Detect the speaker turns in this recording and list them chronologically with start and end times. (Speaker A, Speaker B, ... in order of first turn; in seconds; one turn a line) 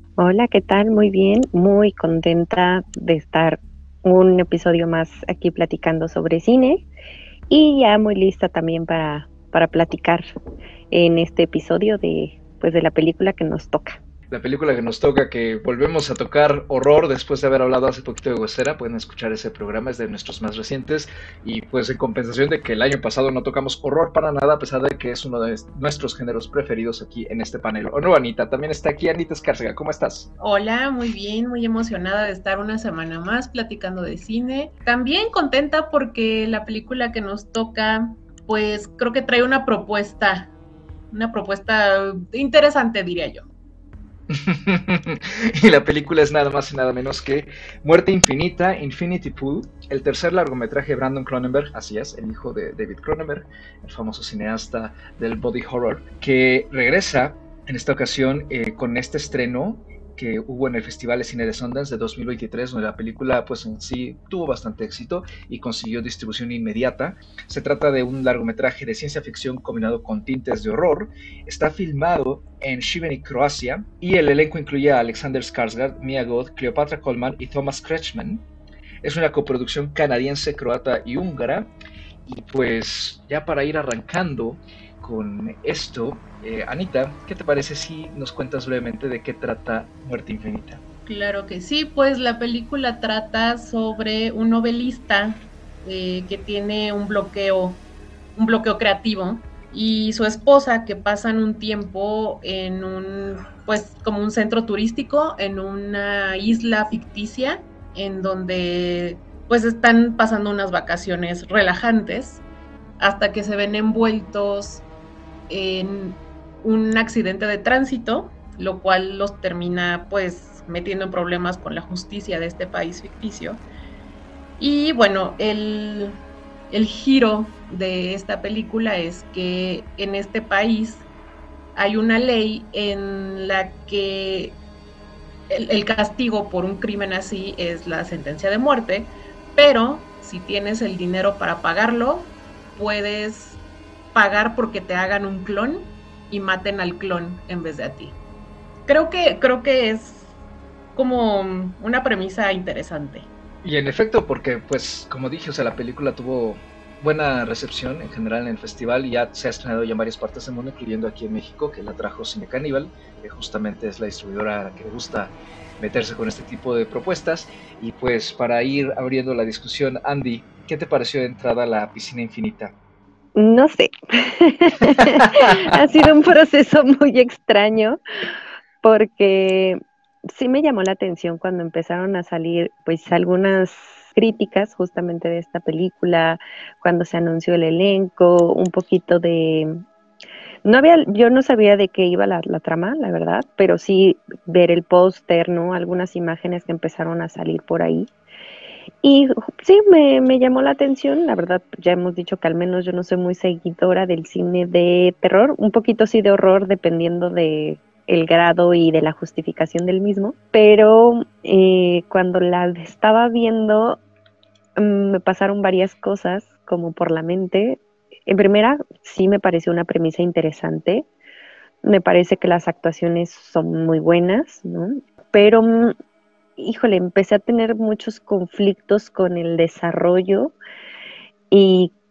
Speaker A: 0.2-6.8
Speaker A: 7.5-10.2
Speaker A: 10.9-14.0
Speaker B: 14.3-30.3
Speaker C: 30.4-40.5
Speaker C: 41.1-43.4
Speaker B: 44.3-78.5
Speaker B: 79.0-81.7
Speaker B: 82.2-90.8
Speaker C: 91.0-97.8
Speaker C: 98.4-112.4
Speaker C: 113.0-114.8
Speaker C: 115.5-123.6
Speaker C: 124.6-126.2
Speaker C: 126.7-131.1
Speaker C: 131.8-134.6
Speaker C: 135.5-143.6
Speaker C: 144.1-148.2
Speaker C: 148.9-150.3
Speaker C: 150.9-153.3
Speaker B: 153.6-172.7
Speaker A: 173.4-178.0
Speaker B: 175.3-175.6
Speaker A: 178.8-179.8
Speaker A: 180.3-189.8
Speaker A: 190.6-198.1
Speaker A: 199.0-214.0
Speaker A: 214.8-221.1
Speaker A: 221.8-225.9
Speaker A: 226.6-230.6
Speaker A: 231.5-231.9